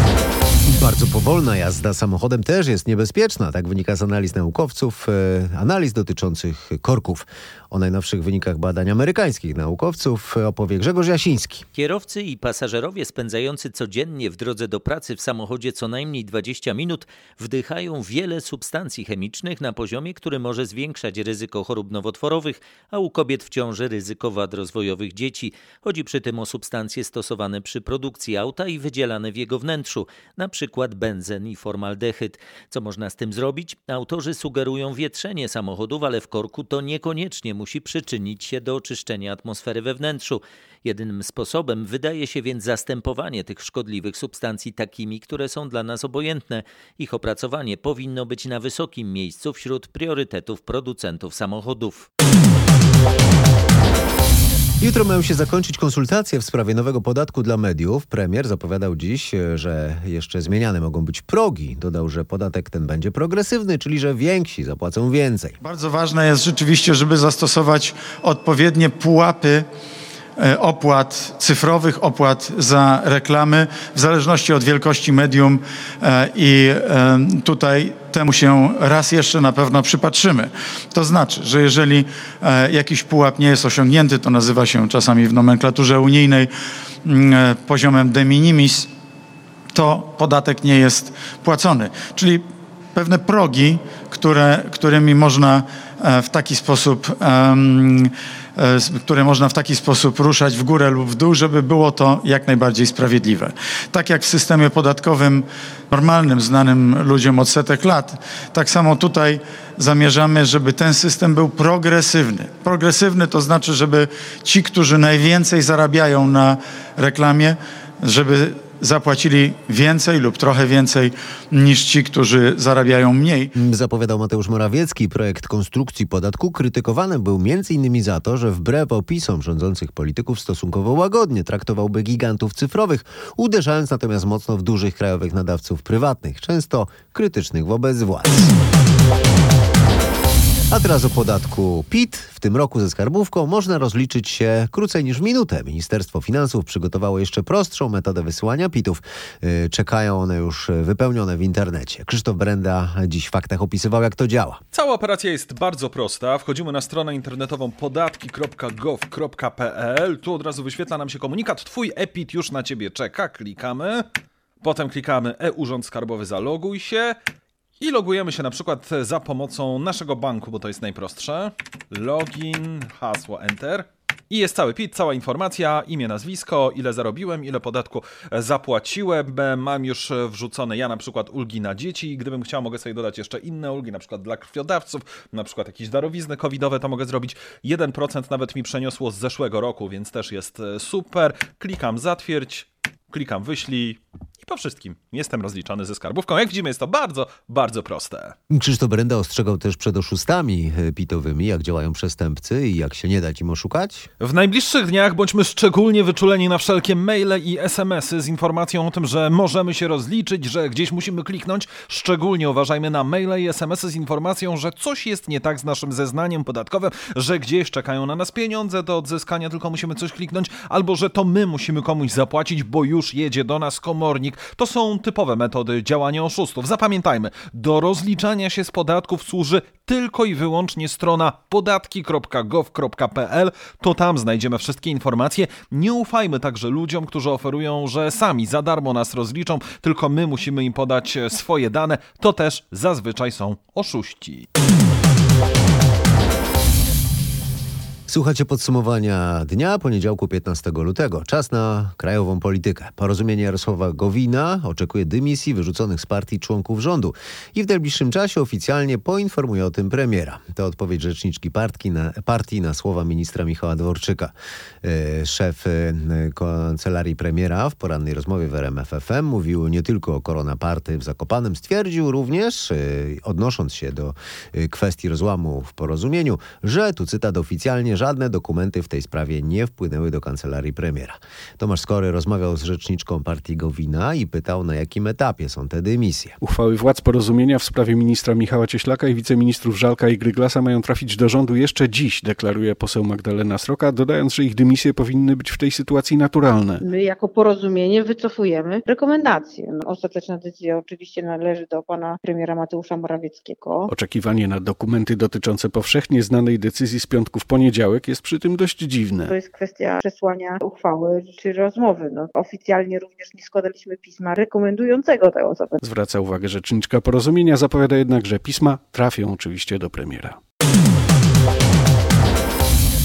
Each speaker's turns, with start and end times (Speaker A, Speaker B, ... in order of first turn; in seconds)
Speaker A: 0.7-11.6, 54.8-65.6, 123.5-138.5, 140.7-154.6, 198.5-204.1, 248.1-286.4
Speaker B: 11.8-52.1
Speaker C: 65.6-69.7, 70.4-86.5, 87.0-88.9, 89.7-92.4, 93.0-123.5
Speaker D: 154.7-164.1, 164.6-167.2, 167.8-198.3, 204.2-244.5
Speaker E: 286.4-296.8, 303.9-309.3, 315.8-320.4
Speaker F: 296.8-303.9, 309.3-315.8